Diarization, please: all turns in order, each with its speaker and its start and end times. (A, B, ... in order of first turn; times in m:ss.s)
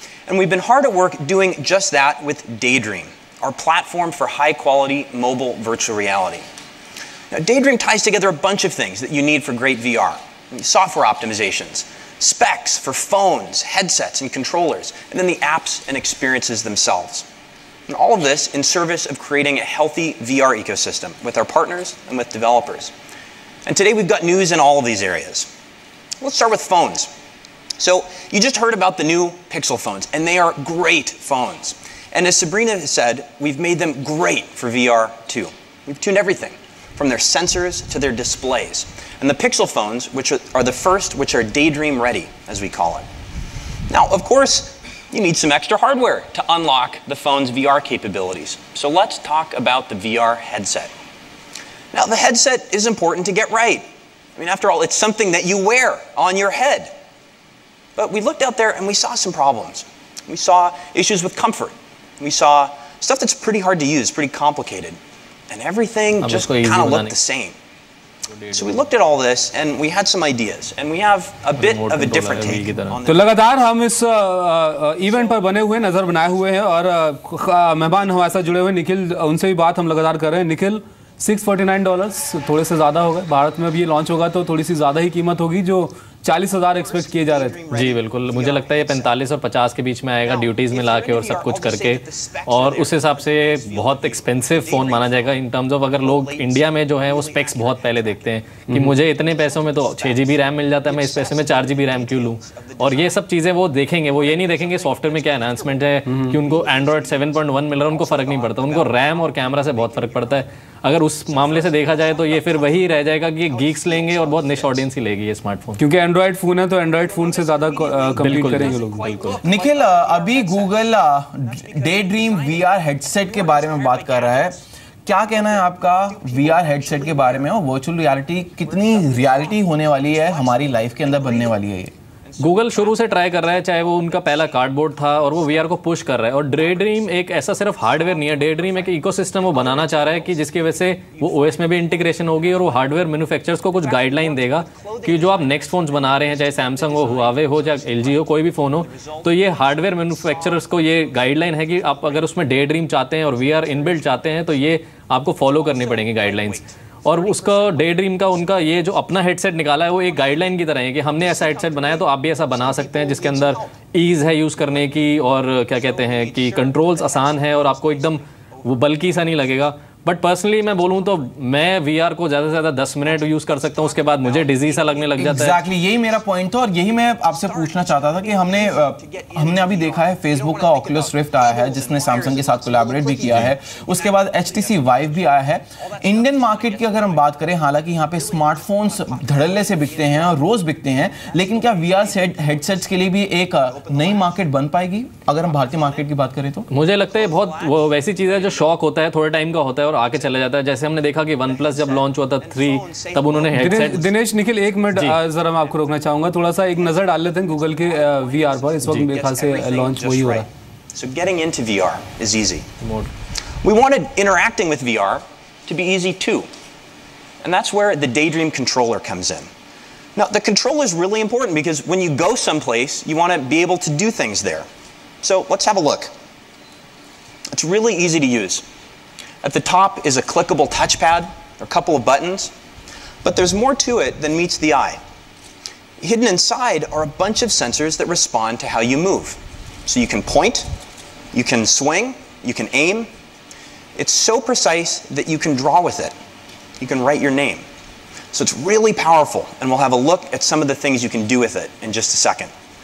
0:00.3-0:06.5 A
0:07.3-0:17.3 A
0:17.9-0:22.9 A
0:23.7-0:25.5 A
0:26.2-0:27.1 A
0:27.8-0:43.1 A
0:43.9-0:50.9 A
0:51.9-0:56.9 A
0:58.0-1:05.0 A
1:05.5-1:07.6 A
1:06.2-1:07.2 B
1:08.4-1:08.8 B
1:08.5-1:13.5 A
1:11.6-1:13.0 B
1:13.1-1:27.6 C
1:15.0-1:16.5 A
1:18.1-1:18.4 A
1:26.7-1:29.4 A
1:27.7-1:55.8 B
1:30.2-1:35.4 A
1:36.0-1:38.4 A
1:39.0-1:43.2 A
1:44.1-1:50.4 A
1:51.2-1:54.9 A
1:55.8-1:59.2 C
1:56.9-2:04.6 A
1:58.2-1:59.4 B
1:59.4-2:11.9 D
2:05.2-2:07.6 A
2:08.4-2:11.6 A
2:12.2-2:23.1 A
2:12.4-2:55.6 B
2:23.7-2:34.6 A
2:35.4-2:39.3 A
2:39.9-2:43.9 A
2:44.6-2:44.9 A
2:45.7-2:49.7 A
2:50.5-2:51.4 A
2:53.0-3:07.4 A
2:55.2-3:16.7 D
3:08.0-3:14.5 A
3:15.4-3:16.1 A
3:16.7-3:24.0 B
3:17.0-3:18.8 A
3:20.1-3:32.7 A
3:23.6-3:30.5 C
3:24.9-3:25.2 B
3:32.8-3:33.1 B
3:33.6-3:36.5 A
3:37.4-3:39.5 A
3:40.2-3:44.7 A
3:45.2-3:46.1 A
3:47.5-3:48.6 A
3:49.4-3:52.5 A
3:53.2-3:55.0 A
3:56.0-4:00.7 A
4:01.3-4:03.1 A
4:04.0-4:06.2 A
4:06.8-4:07.7 A
4:08.3-4:12.5 A